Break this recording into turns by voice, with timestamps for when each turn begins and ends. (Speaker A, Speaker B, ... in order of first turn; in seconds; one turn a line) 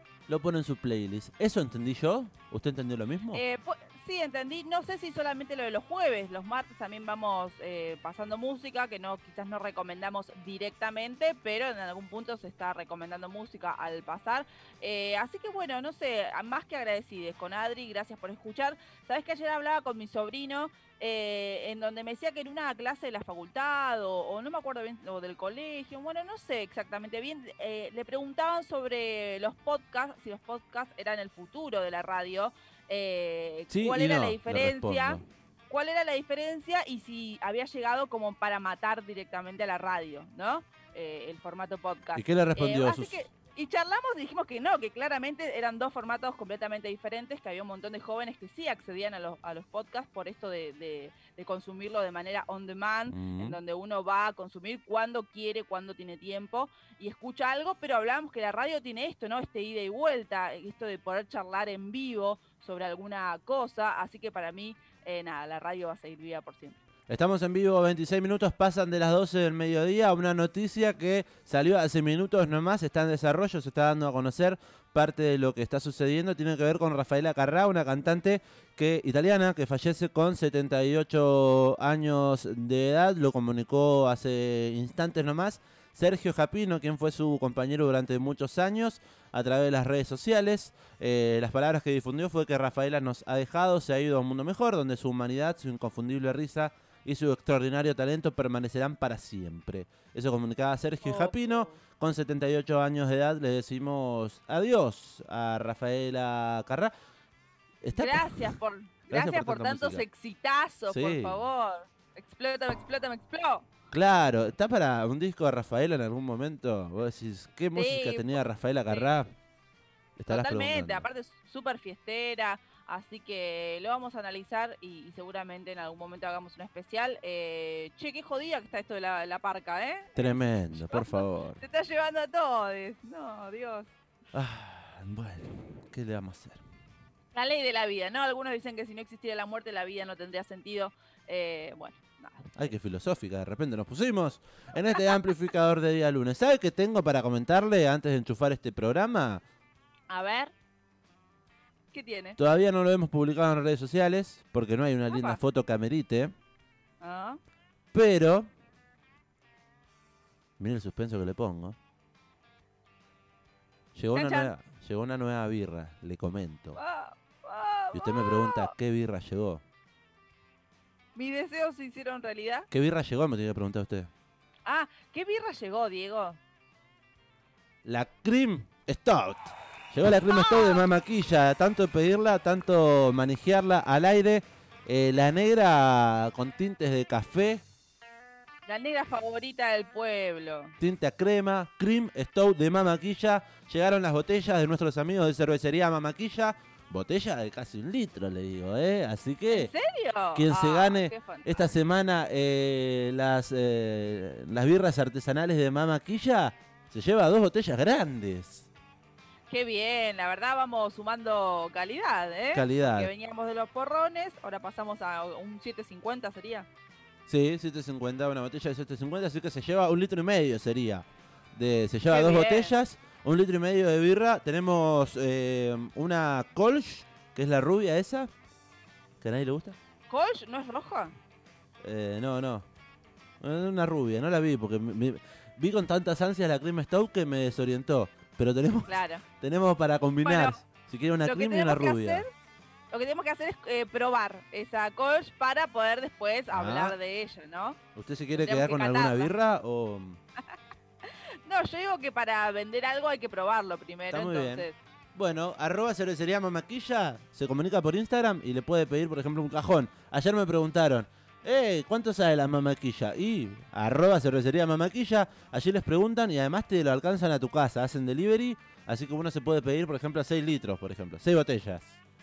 Speaker A: 0.3-3.4
Speaker B: 3.3-66.8
Speaker A: 33.7-35.2
Speaker A: 42.1-43.2
Speaker A: 53.1-53.6
Speaker A: 67.1-106.9
Speaker B: 101.0-101.8
Speaker A: 107.8-108.6
Speaker B: 107.9-113.7
Speaker A: 109.1-110.0
Speaker A: 110.9-111.4
Speaker A: 113.9-119.3
Speaker B: 117.8-119.2
Speaker A: 120.2-121.1
Speaker B: 120.3-133.9
Speaker A: 130.2-131.6
Speaker A: 134.3-136.6
Speaker B: 137.3-142.5
Speaker A: 142.6-149.4
Speaker B: 144.9-145.2
Speaker B: 150.1-150.5
Speaker B: 151.9-152.4
Speaker A: 152.4-156.3
Speaker B: 155.1-155.4
Speaker B: 157.0-157.4
Speaker A: 157.9-158.5
Speaker A: 160.6-161.8
Speaker A: 163.9-166.8
Speaker B: 164.1-164.5
Speaker B: 166.8-168.7
Speaker A: 167.9-169.6
Speaker B: 171.2-172.7
Speaker A: 172.7-174.1
Speaker B: 174.7-176.4
Speaker A: 177.8-187.6
Speaker B: 180.3-180.8
Speaker B: 188.7-190.7
Speaker A: 190.8-199.7
Speaker B: 199.5-201.7
Speaker A: 200.3-208.7
Speaker B: 209.5-216.7
Speaker A: 212.5-213.1
Speaker A: 217.3-228.3
Speaker B: 222.1-222.7
Speaker A: 229.2-229.8
Speaker B: 230.1-231.1
Speaker A: 231.8-232.7
Speaker A: 233.4-242.2
Speaker B: 238.9-239.2
Speaker B: 240.2-240.6
Speaker B: 241.3-242.3
Speaker B: 242.9-247.8
Speaker A: 246.5-247.0
Speaker A: 247.9-250.2
Speaker B: 248.3-249.3
Speaker B: 251.1-254.8
Speaker A: 254.1-271.9